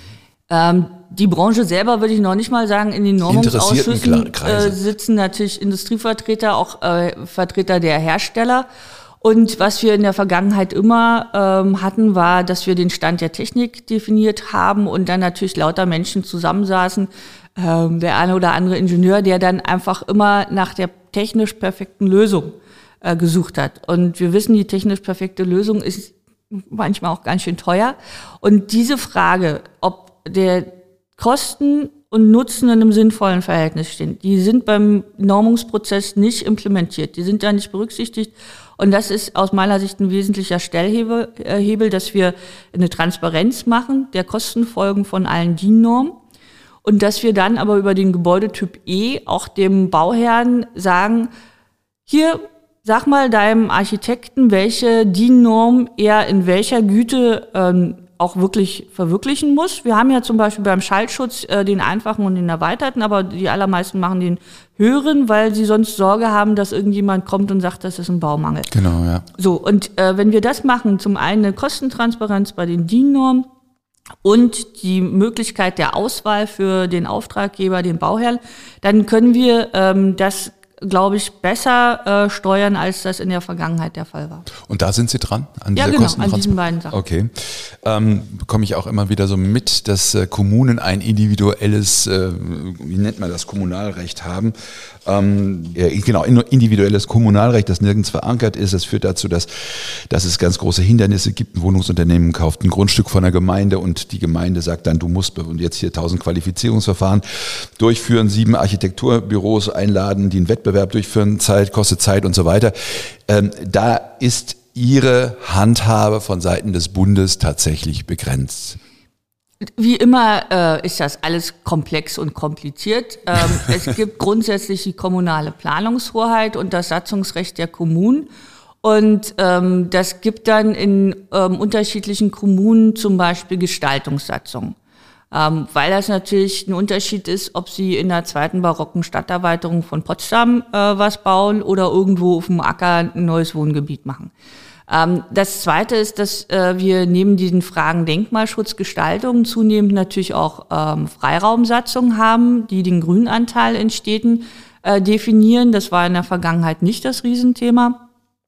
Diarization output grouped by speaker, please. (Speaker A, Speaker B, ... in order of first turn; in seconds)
Speaker A: 0.5-8.7, 9.2-46.2, 46.8-51.3, 52.1-68.7, 69.4-73.5, 74.2-84.5, 85.8-87.0, 119.8-128.3, 128.8-134.7, 135.3-144.3, 144.9-158.0
Speaker B: 3.2-4.8, 68.7-69.2, 84.6-94.5, 95.0-118.8